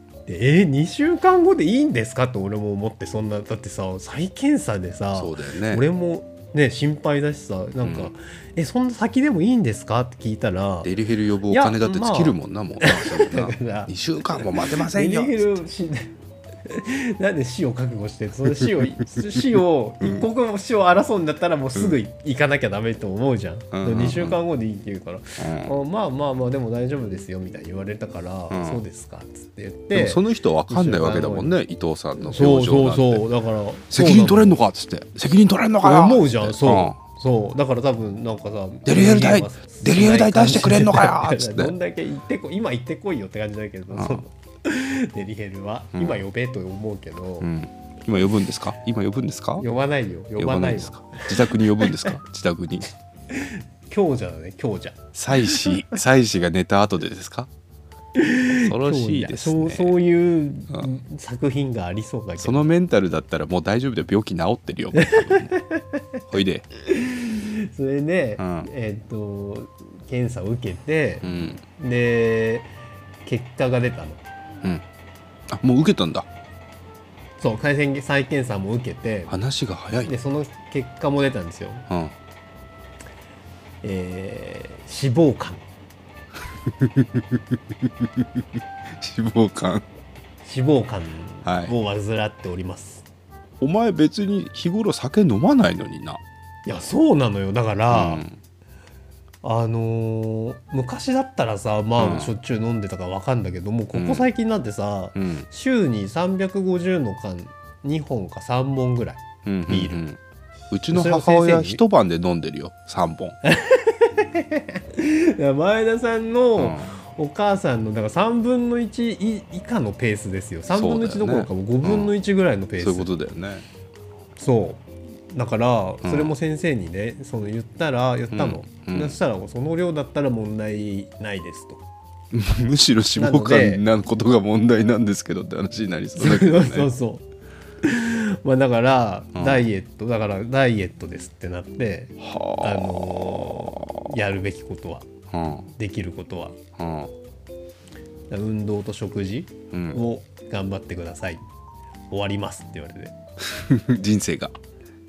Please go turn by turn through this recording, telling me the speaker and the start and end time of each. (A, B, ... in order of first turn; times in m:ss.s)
0:00.3-0:10.9 A
0:05.1-0:05.8 B
0:07.8-0:08.1 B
0:10.8-0:15.6 B
0:11.5-0:31.6 A
0:23.7-0:24.4 B
0:25.4-0:25.8 B
0:28.5-0:28.8 B
0:29.9-0:33.2 B
0:32.2-0:34.6 A
0:33.9-0:37.0 B
0:35.8-0:47.5 A
0:38.9-0:41.7 B
0:43.9-0:44.2 B
0:46.0-0:46.2 B
0:47.4-0:49.7 B
0:49.6-0:52.2 A
0:50.4-0:52.9 B
0:53.3-0:56.0 A
0:55.1-0:57.5 B
0:58.1-1:02.7 A
0:58.5-1:00.0 B
1:02.4-1:05.5 B
1:05.0-1:06.2 A
1:06.3-1:06.7 B
1:06.8-1:12.7 A
1:08.4-1:08.7 B
1:11.2-1:11.6 B
1:13.2-1:14.2 A
1:15.5-1:16.3 B
1:17.4-1:19.3 A
1:19.3-1:20.2 B
1:20.1-1:21.9 A
1:21.9-1:22.1 B
1:23.8-1:25.6 A
1:26.6-1:28.4 B
1:29.0-1:29.9 B
1:30.4-1:33.0 A
1:31.4-1:31.7 B
1:33.6-1:36.2 B
1:36.6-1:38.2 A
1:37.9-1:38.4 B
1:39.4-1:50.0 A
1:42.0-1:42.3 B
1:43.9-1:44.3 B
1:45.2-1:45.5 B
1:49.4-1:50.2 B
1:50.7-1:53.4 B
1:50.9-1:51.8 A
1:53.4-2:03.1 A
1:56.6-1:57.0 B
2:00.7-2:02.1 B
2:02.8-2:03.7 B
2:04.4-2:11.8 A
2:06.0-2:06.3 B
2:08.3-2:09.2 B
2:12.3-2:16.9 B
2:13.2-2:13.8 A
2:16.2-2:17.2 A
2:17.8-2:25.1 A
2:19.4-2:19.7 B
2:22.2-2:24.1 B
2:25.3-2:25.7 B
2:25.7-2:26.6 A
2:26.8-2:27.1 B
2:28.3-2:31.4 A
2:29.7-2:30.0 B
2:32.1-2:33.1 A
2:33.4-2:34.6 B